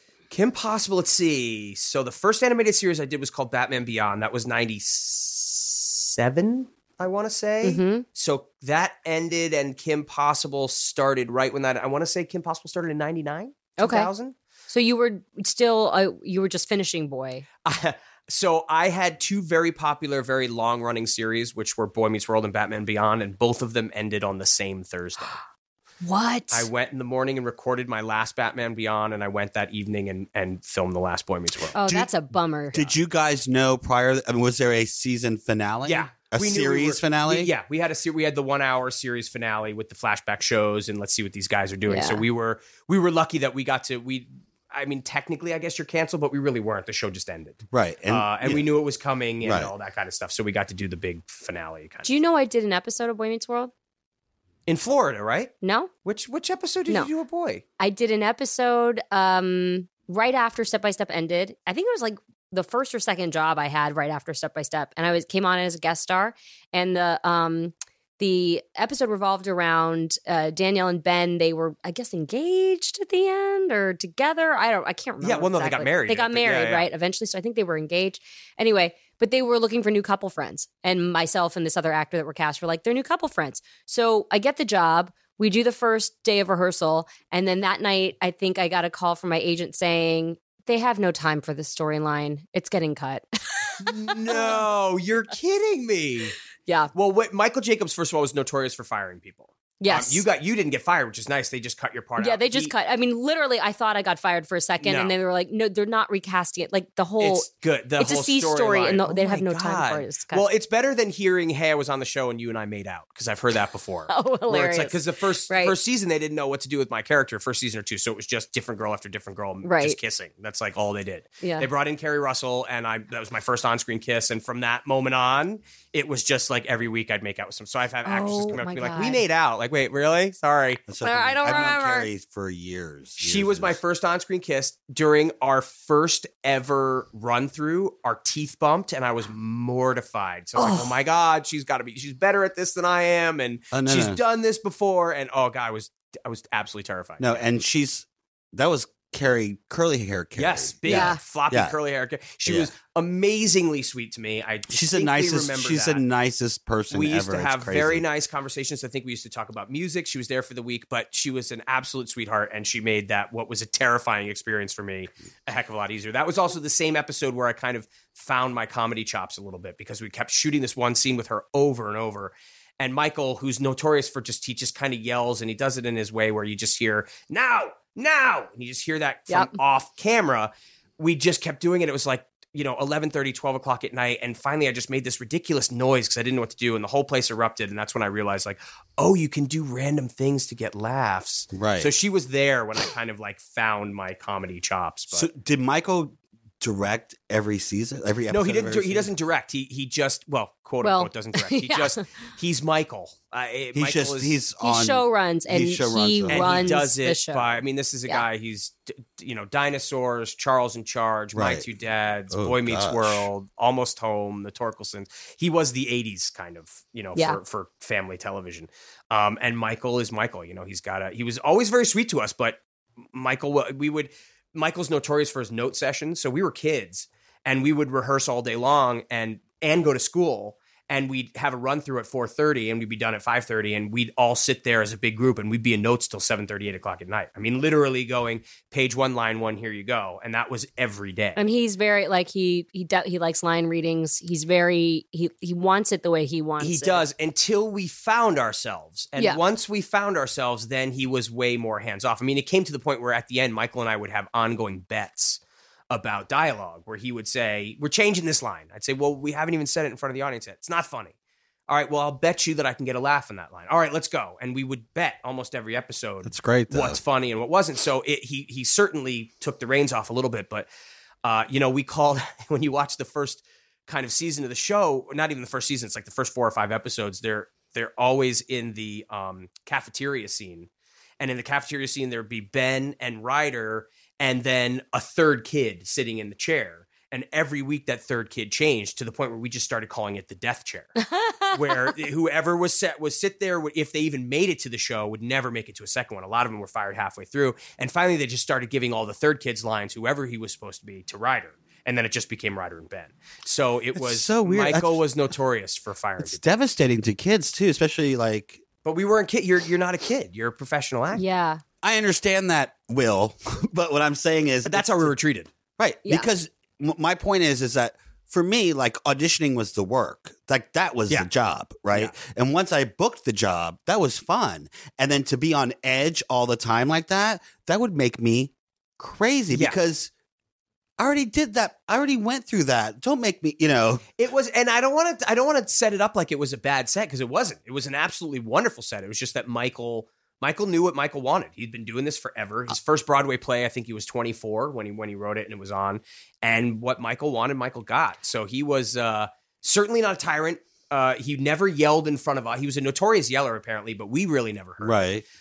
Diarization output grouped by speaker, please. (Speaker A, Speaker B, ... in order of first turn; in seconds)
Speaker A: 0.3-14.3, 17.6-25.4, 26.5-31.8, 35.8-52.1, 54.6-55.5, 56.0-57.6, 75.2-76.9, 93.8-96.4, 96.9-102.7, 104.8-105.1, 107.2-130.8, 133.2-147.5, 150.3-156.0, 156.9-195.3, 198.3-204.4, 206.3-222.6, 223.1-241.4, 246.6-255.4, 255.9-261.1, 261.7-270.7, 271.2-280.7, 281.2-291.0, 291.5-306.4, 308.8-311.2, 314.6-315.5, 334.2-355.0
Speaker B: 7.6-8.0, 13.8-14.1, 14.7-17.4, 26.0-26.7, 31.7-32.9, 41.9-42.2, 52.0-53.7, 55.6-55.9, 57.8-94.6, 96.7-96.9, 99.8-100.2, 102.2-107.5, 108.0-110.4, 114.1-115.8, 119.6-120.0, 121.4-121.7, 128.0-129.2, 131.0-132.1, 140.6-140.9, 150.8-151.2, 179.3-179.6, 200.8-202.0, 204.6-208.2, 241.4-247.1, 291.0-291.9, 311.1-311.6
Speaker C: 31.8-32.1, 32.7-37.5, 47.7-48.6, 49.4-49.7, 130.9-133.8, 143.7-144.2, 147.2-151.8, 152.4-152.7, 154.7-158.0, 191.5-191.9, 195.1-199.1, 203.7-206.8, 211.3-211.7, 212.3-213.3, 266.2-267.0, 303.9-305.0, 306.2-308.6, 311.8-315.1, 315.8-330.1, 331.0-334.0, 354.8-355.2